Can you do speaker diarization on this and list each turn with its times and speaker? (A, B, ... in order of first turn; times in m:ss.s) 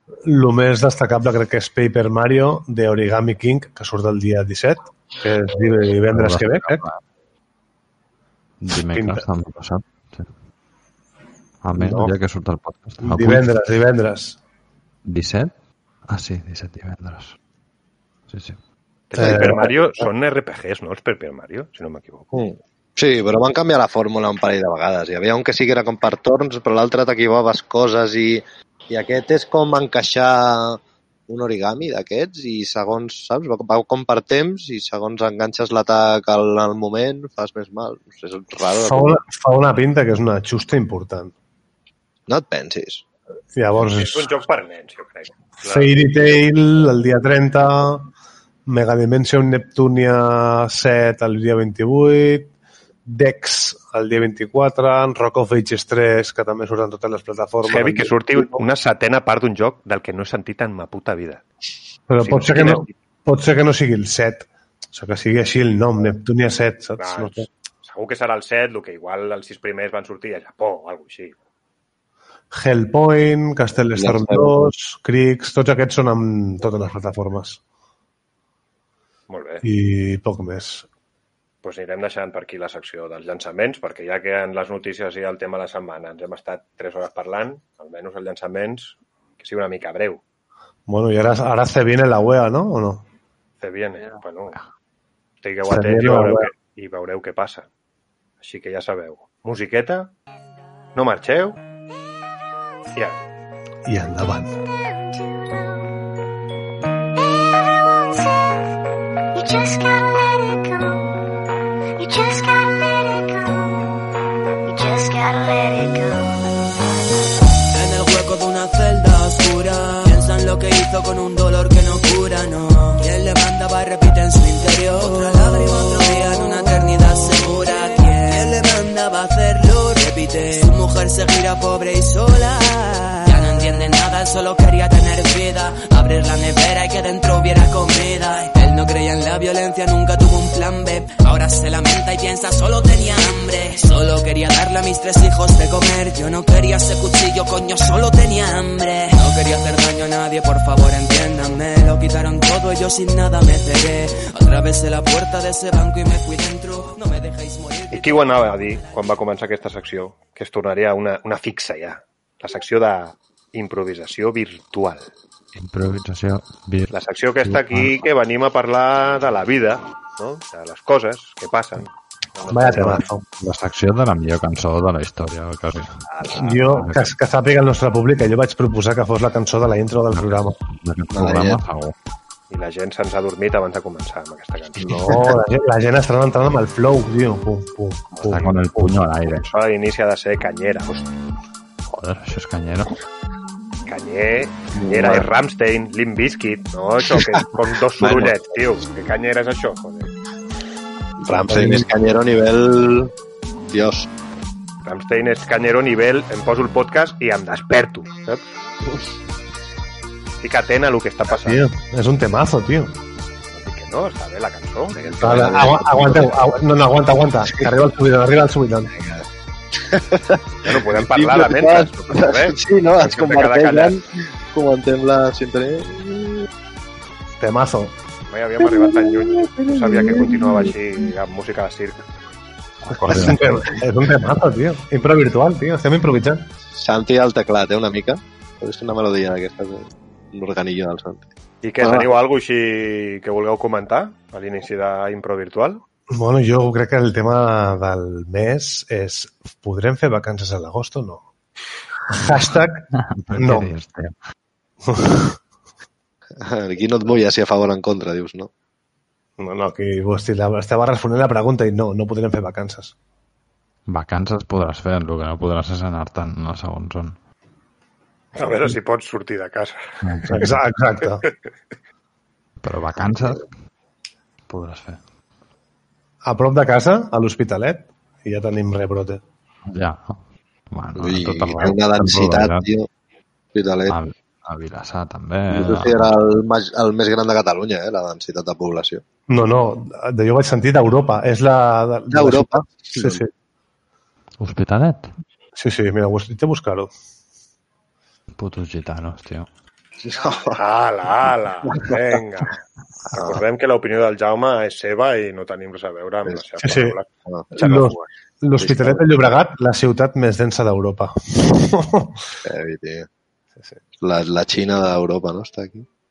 0:00.3-0:06.8 A
0:06.1-0:07.0 B
0:08.6-0:10.3 B
0:08.9-0:09.2 A
0:11.6-0:13.5 B
0:11.8-0:12.1 A
0:13.0-0:14.4 A
0:15.0-0:15.5 B
0:16.1-0:17.4 B
0:18.3-0:18.6 B
0:19.1-0:22.3 C
0:19.2-0:19.7 A
0:19.2-0:19.7 D
0:22.3-0:39.2 D
0:38.7-0:41.3 A
0:42.3-0:43.0 D
0:43.6-0:44.3 A
0:43.8-0:45.9 C
0:45.6-0:48.1 A
0:48.7-0:52.5 A
0:53.1-0:58.6 A
0:57.6-1:01.4 C
1:02.1-1:07.5 A
1:02.2-1:02.9 C
1:07.0-1:11.4 C
1:12.5-1:17.6 A
1:14.0-1:14.7 D
1:19.3-1:19.6 C
1:19.6-1:20.9 A
1:21.6-1:30.2 C
1:30.9-1:33.0 A
1:33.6-1:34.6 C
1:35.4-1:37.7 C
1:35.7-1:36.5 A
1:38.4-1:40.1 C
1:41.0-1:41.6 C
1:43.9-1:44.5 A
1:44.7-1:45.9 E
1:47.3-1:48.7 E
1:49.3-1:51.3 E
1:52.0-1:53.9 E
1:54.6-1:56.5 E
1:57.7-2:38.9 F
2:37.9-2:45.1 C
2:45.5-2:46.9 B
2:46.9-2:53.1 C
2:47.4-2:47.9 B
2:52.5-2:53.2 A
2:53.4-2:57.1 B
2:56.3-3:00.6 A
3:00.1-3:01.9 B
3:01.1-3:01.6 D
3:02.5-3:05.0 C
3:04.8-3:09.0 A
3:05.1-3:05.3 D
3:08.2-3:09.5 B
3:09.3-3:11.1 C
3:11.9-3:12.9 B
3:13.9-3:20.1 C
3:14.7-3:15.3 D
3:17.1-3:17.4 D
3:18.0-3:18.5 D
3:21.2-3:23.1 D
3:21.3-3:21.9 A
3:23.7-3:24.1 D
3:24.8-3:28.4 C
3:30.4-3:31.6 C
3:31.3-3:33.0 A
3:33.5-3:35.6 C
3:34.9-3:36.5 D
3:35.2-3:38.9 A
3:37.5-3:37.8 D
3:38.9-3:46.5 D
3:40.6-3:44.0 C
3:47.4-3:48.0 A
3:48.3-3:52.1 C
3:48.6-3:50.8 D
3:52.8-3:53.6 B
3:53.0-3:56.5 A
3:53.1-3:53.5 D
3:56.7-4:01.3 D
4:01.6-4:05.8 C
4:01.8-4:02.1 D
4:06.1-4:11.3 A
4:12.1-4:13.7 A
4:13.0-4:14.1 B
4:14.8-4:15.4 A
4:16.4-4:18.5 D
4:19.4-4:23.0 A
4:23.9-4:27.2 B
4:28.4-4:29.8 C
4:30.0-4:30.6 B
4:30.3-4:31.2 A
4:32.6-4:33.5 B
4:34.5-4:35.0 B
4:36.2-4:39.2 A
4:39.7-4:42.7 B
4:41.0-4:42.9 D
4:43.5-4:44.0 D
4:43.9-4:46.1 B
4:45.5-4:49.0 D
4:49.3-4:53.3 A
4:52.1-4:53.2 D
4:54.4-4:55.1 B
4:55.6-4:56.9 A
4:58.4-4:59.5 B
5:00.0-5:00.6 D
5:00.6-5:02.6 C
5:03.1-5:03.4 D
5:03.1-5:08.1 C
5:06.6-5:07.0 A
5:07.6-5:12.2 A
5:08.6-5:09.1 D
5:12.4-5:13.1 D
5:14.0-5:15.9 D